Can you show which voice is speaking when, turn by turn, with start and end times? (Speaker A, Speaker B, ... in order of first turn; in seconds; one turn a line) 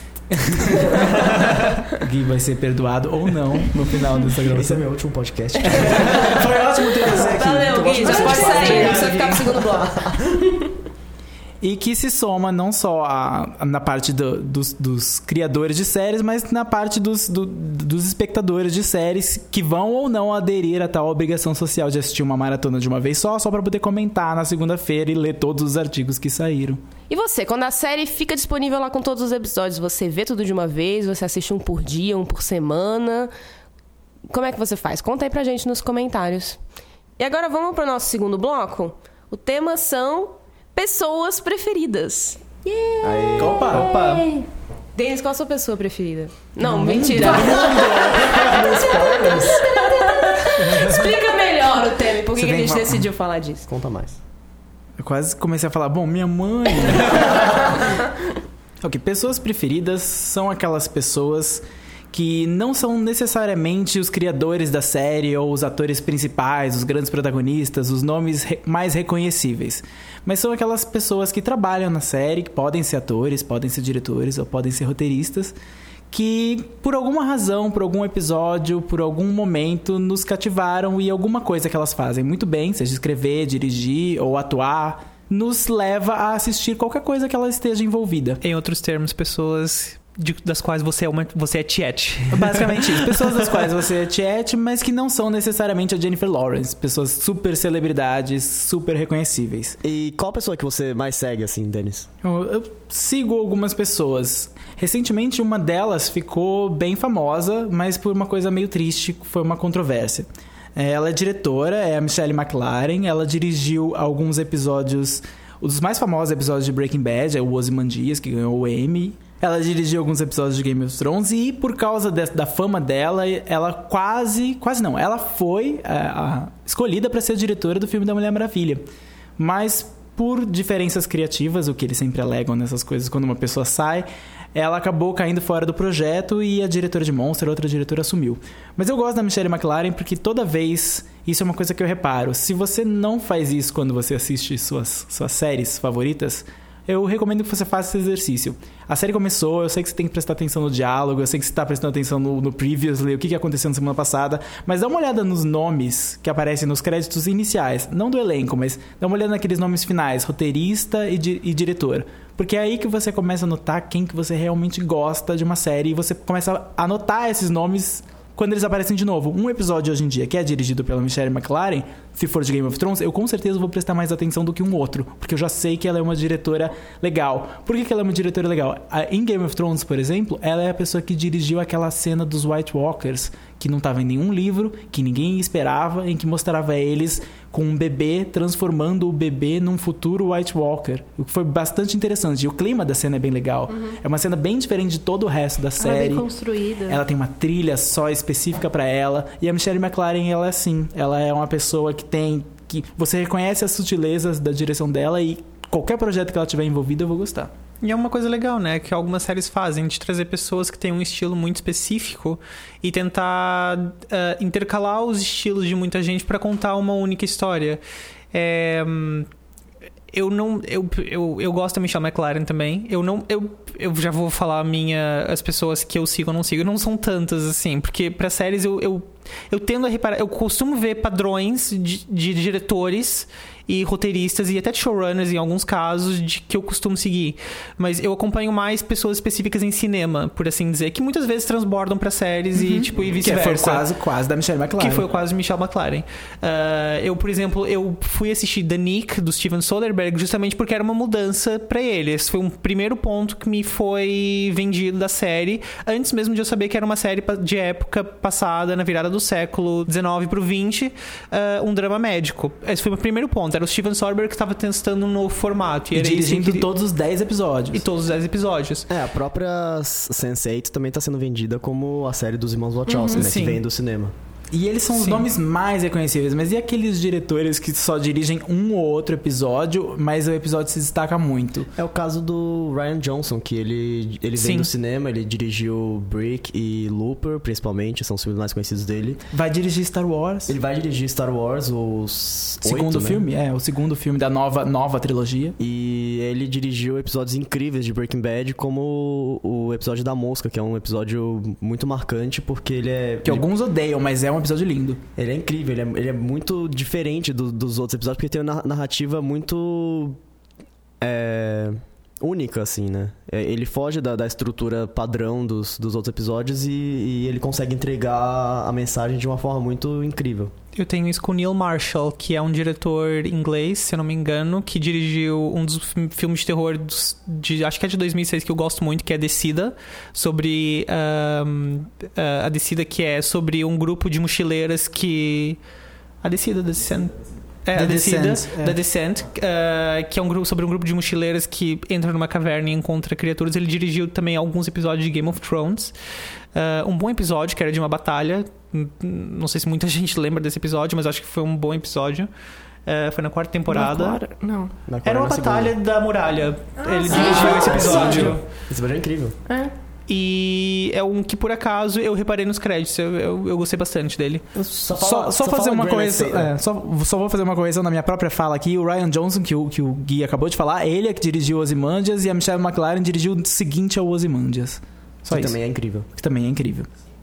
Speaker A: 0.3-4.8
Speaker B: 4.4-6.5
Speaker A: 5.6-9.2
Speaker C: 7.1-10.7
Speaker B: 7.5-10.4
Speaker D: 8.3-9.1
Speaker A: 11.6-26.8
Speaker C: 27.1-33.3
Speaker C: 34.3-36.6
Speaker C: 37.2-42.4
Speaker E: 42.6-44.5
Speaker B: 43.0-43.9
Speaker A: 43.4-43.9
Speaker D: 43.9-44.2
Speaker C: 45.0-53.7
Speaker B: 46.8-49.6
Speaker A: 46.9-47.7
Speaker E: 48.9-50.5
Speaker A: 52.3-53.1
Speaker B: 53.7-54.2
Speaker A: 55.0-57.8
Speaker A: 58.8-75.5
Speaker A: 76.1-88.4
Speaker D: 88.4-93.3
Speaker A: 92.3-99.8
Speaker B: 99.8-102.1
Speaker A: 102.2-128.8
Speaker A: 129.4-196.3
Speaker E: 193.7-194.0
Speaker E: 195.8-197.0
Speaker A: 196.9-207.5
Speaker D: 207.8-217.8
Speaker D: 218.3-219.3
Speaker D: 220.1-243.8
Speaker A: 242.6-245.1
Speaker D: 244.8-266.7
Speaker A: 265.9-267.9
Speaker D: 267.7-268.9
Speaker B: 268.9-274.1
Speaker E: 272.9-273.2
Speaker D: 273.1-273.6
Speaker A: 274.5-281.7
Speaker D: 275.0-275.2
Speaker B: 281.8-289.2
Speaker D: 284.4-284.7
Speaker A: 289.3-290.6
Speaker B: 290.5-293.2
Speaker A: 292.6-295.6
Speaker B: 295.6-303.4
Speaker A: 303.2-305.0
Speaker B: 305.2-310.2
Speaker B: 311.0-320.5
Speaker D: 320.8-335.6
Speaker D: 336.2-345.9
Speaker A: 337.7-338.8
Speaker D: 346.6-352.3
Speaker D: 352.9-354.2
Speaker E: 353.7-354.7
Speaker B: 354.9-355.7
Speaker D: 355.1-358.4
Speaker E: 356.8-358.4
Speaker B: 357.1-359.4
Speaker E: 359.5-359.7
Speaker D: 360.1-364.4
Speaker B: 364.6-366.5
Speaker A: 364.9-375.6
Speaker B: 375.3-376.1
Speaker A: 376.1-376.9